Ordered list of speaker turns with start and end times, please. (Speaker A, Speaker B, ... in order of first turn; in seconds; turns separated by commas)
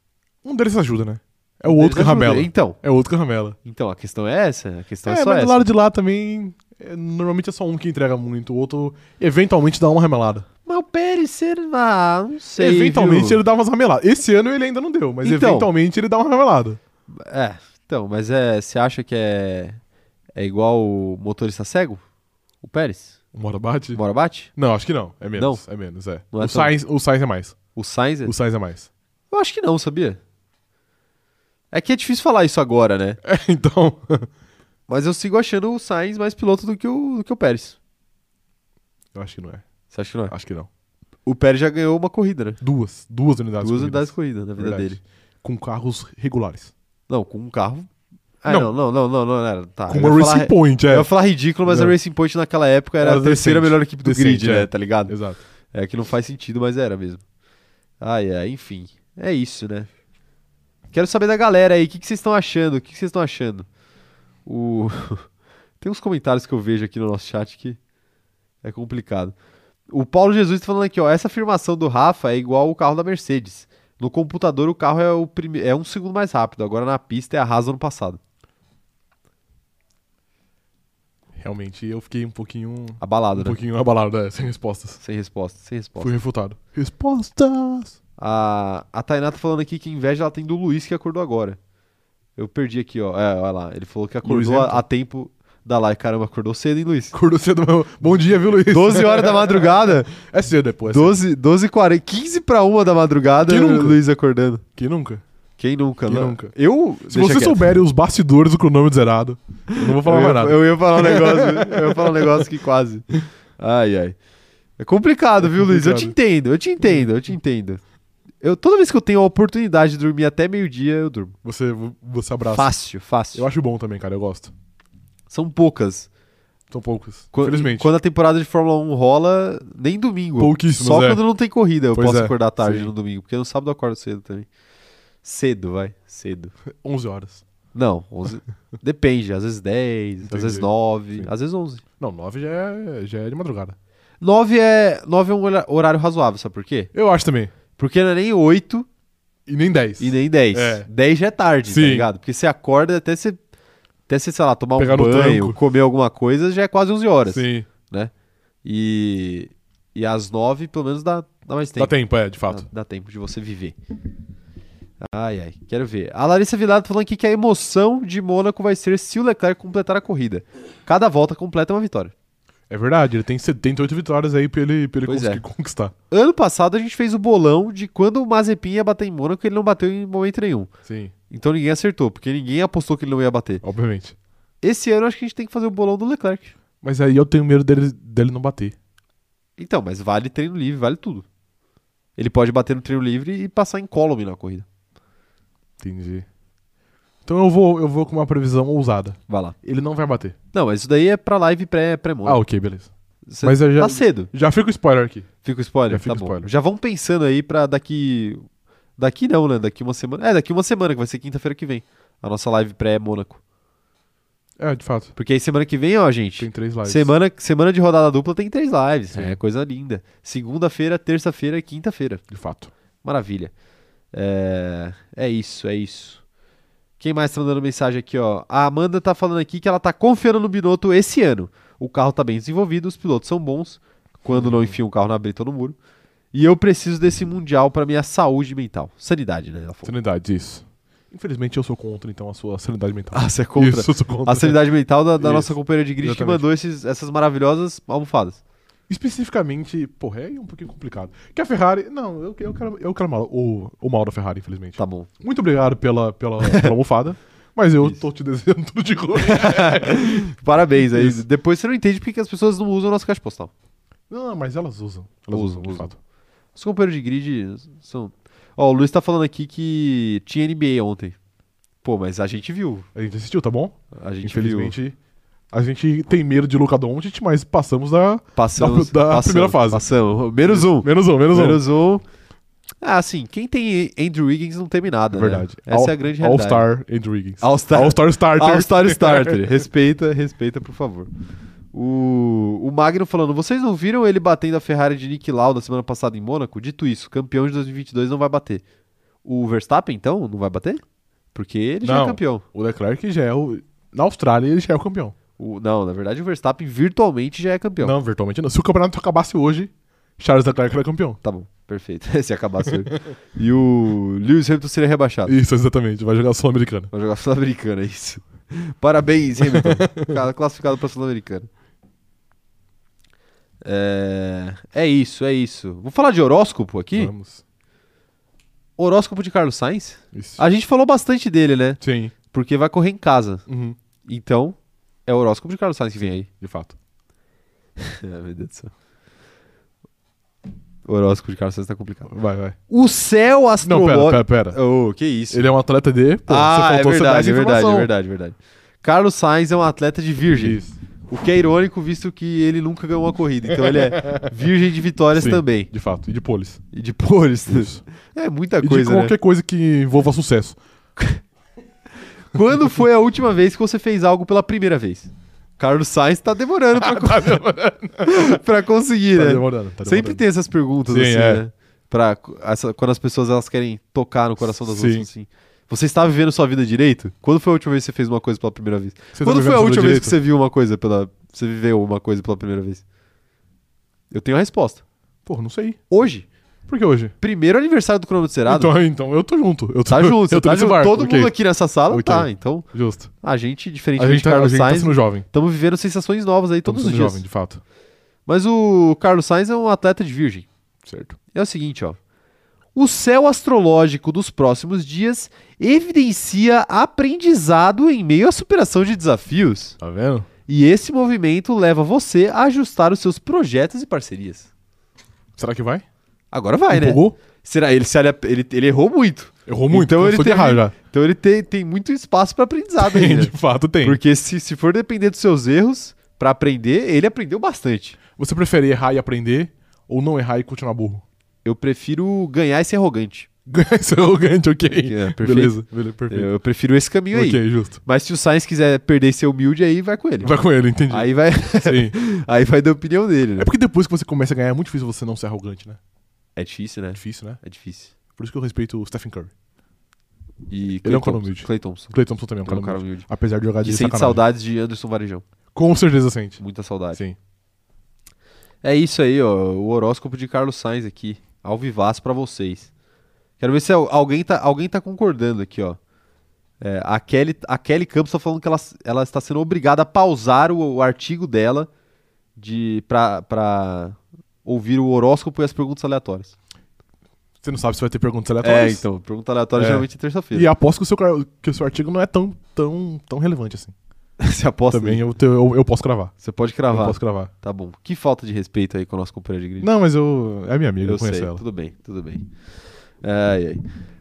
Speaker A: 0.4-3.6, Speaker B: 1.6-2.8, Speaker B: 3.6-5.6, Speaker A: 5.1-10.4, Speaker B: 10.7-13.4, Speaker A: 12.6-16.8, Speaker B: 15.2-15.7, Speaker B: 17.1-19.8, Speaker B: 20.4-22.0, Speaker B: 22.6-23.2, Speaker A: 23.3-24.0, Speaker B: 23.9-24.5, Speaker A: 24.6-27.6, Speaker B: 25.4-25.6, Speaker B: 26.3-26.7, Speaker B: 27.7-28.3, Speaker A: 28.2-28.9, Speaker B: 29.3-30.2, Speaker B: 31.7-33.2, Speaker A: 33.2-34.3, Speaker B: 34.9-37.8, Speaker A: 39.1-39.6, Speaker B: 39.9-40.3, Speaker A: 40.3-40.7, Speaker B: 41.3-42.6, Speaker A: 42.6-46.7, Speaker B: 43.6-45.0, Speaker B: 47.1-47.9, Speaker B: 48.4-55.2, Speaker A: 48.5-48.7, Speaker A: 49.9-51.1, Speaker A: 51.7-51.9, Speaker A: 53.0-55.4, Speaker B: 55.7-57.2, Speaker B: 58.0-59.9, Speaker B: 60.9-63.6, Speaker B: 64.5-65.3, Speaker B: 65.8-67.8, Speaker B: 68.6-69.3, Speaker B: 69.9-78.2, Speaker A: 81.4-85.0, Speaker B: 83.0-83.6, Speaker B: 85.0-86.2, Speaker A: 86.0-88.0, Speaker B: 88.2-91.6, Speaker B: 92.4-97.2, Speaker A: 94.2-94.8, Speaker A: 97.1-101.2, Speaker B: 98.7-100.1, Speaker B: 100.9-104.6, Speaker A: 103.5-104.0, Speaker A: 104.8-105.2, Speaker B: 105.6-107.7, Speaker A: 106.1-106.5, Speaker A: 107.1-112.5, Speaker B: 109.7-113.0, Speaker B: 113.6-114.2, Speaker B: 114.8-117.8, Speaker A: 115.4-116.2, Speaker A: 116.8-117.1, Speaker B: 118.4-121.4, Speaker A: 121.4-122.7, Speaker B: 122.5-123.5, Speaker A: 123.3-124.5, Speaker B: 125.3-126.1, Speaker A: 126.7-127.9, Speaker B: 127.3-134.5, Speaker A: 130.4-131.2, Speaker A: 131.9-132.9, Speaker B: 135.2-136.5, Speaker A: 136.7-137.4, Speaker B: 137.7-141.8, Speaker A: 140.2-141.3, Speaker A: 142.0-143.8, Speaker B: 144.2-146.9, Speaker A: 146.9-147.5, Speaker B: 147.8-148.9, Speaker A: 149.5-150.9, Speaker B: 150.0-153.4, Speaker A: 151.7-152.1, Speaker B: 154.1-158.1, Speaker A: 154.8-155.6, Speaker A: 157.3-157.7, Speaker B: 158.6-161.9, Speaker A: 161.8-162.7, Speaker B: 162.5-163.8, Speaker B: 165.0-172.1, Speaker A: 172.7-175.9, Speaker B: 175.1-175.4, Speaker B: 176.1-180.7, Speaker A: 180.9-181.1, Speaker B: 181.3-183.6, Speaker A: 183.6-184.2, Speaker B: 184.6-186.5, Speaker A: 186.8-188.7, Speaker B: 189.6-191.2, Speaker B: 192.2-194.7, Speaker A: 195.8-196.3, Speaker A: 197.2-200.4, Speaker B: 199.3-199.6, Speaker B: 200.5-202.4, Speaker A: 202.2-202.9, Speaker B: 203.3-204.3, Speaker A: 203.4-205.3, Speaker B: 205.4-208.4, Speaker A: 205.9-206.5, Speaker B: 209.0-213.4, Speaker A: 214.6-215.1, Speaker B: 215.2-222.2, Speaker A: 216.4-217.1, Speaker A: 222.3-222.7, Speaker B: 223.0-223.5, Speaker B: 224.1-226.2, Speaker B: 227.0-235.8, Speaker A: 234.3-234.7, Speaker B: 236.3-239.9, Speaker A: 239.8-244.6, Speaker B: 243.1-248.4, Speaker A: 245.2-246.4, Speaker A: 248.9-260.3, Speaker B: 254.8-255.1, Speaker B: 256.4-256.7, Speaker B: 259.2-263.5, Speaker A: 260.9-261.2, Speaker A: 264.1-265.9, Speaker B: 265.3-265.9, Speaker B: 266.6-271.1, Speaker B: 271.8-272.9, Speaker A: 272.9-274.9, Speaker B: 273.9-274.7, Speaker A: 275.5-279.8, Speaker B: 278.4-282.0, Speaker A: 280.4-281.6, Speaker B: 282.8-286.7, Speaker A: 285.1-289.5, Speaker B: 287.4-291.1, Speaker B: 291.7-298.6, Speaker B: 299.2-300.8, Speaker B: 301.3-302.4, Speaker A: 301.8-305.1, Speaker B: 305.4-307.9, Speaker A: 307.8-311.2, Speaker B: 311.2-315.4, Speaker A: 315.3-316.9, Speaker B: 316.9-321.5, Speaker A: 319.4-320.2, Speaker B: 323.6-327.1, Speaker A: 326.9-327.4, Speaker B: 328.8-331.8, Speaker A: 330.1-330.4, Speaker A: 331.8-332.1, Speaker B: 332.3-333.4, Speaker A: 333.5-333.8, Speaker B: 334.1-336.3, Speaker A: 336.4-336.7, Speaker B: 337.8-338.7, Speaker B: 340.9-342.1, Speaker A: 342.1-342.6, Speaker B: 342.7-345.5, Speaker A: 343.6-344.6, Speaker A: 345.3-347.9, Speaker B: 346.3-355.7, Speaker A: 350.3-350.8, Speaker A: 353.6-354.3, Speaker A: 355.1-356.6, Speaker B: 356.7-359.1, Speaker A: 357.5-357.8, Speaker A: 358.6-360.6, Speaker B: 362.3-367.4, Speaker A: 366.7-368.4, Speaker B: 368.0-382.8, Speaker A: 369.1-370.2, Speaker A: 370.9-371.4, Speaker A: 374.5-375.1, Speaker A: 379.1-380.2, Speaker B: 384.1-384.8, Speaker A: 385.3-385.8, Speaker B: 385.9-386.3, Speaker A: 386.7-387.1, Speaker B: 387.2-388.7, Speaker A: 388.4-391.3, Speaker B: 389.9-392.7, Speaker A: 391.9-393.1, Speaker B: 393.2-397.2, Speaker A: 394.0-395.2, Speaker A: 396.6-397.6, Speaker B: 398.3-400.5, Speaker A: 400.8-401.1, Speaker B: 401.3-402.0, Speaker B: 402.7-409.8, Speaker A: 409.8-410.3, Speaker B: 410.5-414.5, Speaker A: 415.4-415.8, Speaker B: 416.3-428.0, Speaker A: 416.7-417.2, Speaker A: 419.4-420.7, Speaker A: 422.8-424.0, Speaker A: 428.2-431.0, Speaker B: 431.4-433.3, Speaker A: 433.5-436.3, Speaker B: 434.8-440.4, Speaker A: 437.1-437.8, Speaker A: 440.2-441.9, Speaker B: 440.9-443.5, Speaker A: 443.4-445.8, Speaker B: 446.4-447.9, Speaker A: 446.9-447.4, Speaker A: 448.1-449.3, Speaker B: 450.5-453.1, Speaker A: 450.8-454.2, Speaker B: 453.6-455.2, Speaker A: 455.5-456.4, Speaker B: 456.4-457.0, Speaker B: 458.6-462.7, Speaker B: 463.4-465.8, Speaker B: 466.6-471.7, Speaker B: 472.4-476.4, Speaker A: 477.4-478.8, Speaker B: 478.4-480.5, Speaker A: 479.6-483.7, Speaker B: 484.2-485.0, Speaker A: 484.7-486.1, Speaker B: 486.2-489.7, Speaker A: 486.7-487.3, Speaker A: 489.6-491.4, Speaker B: 490.8-492.3, Speaker B: 493.0-493.6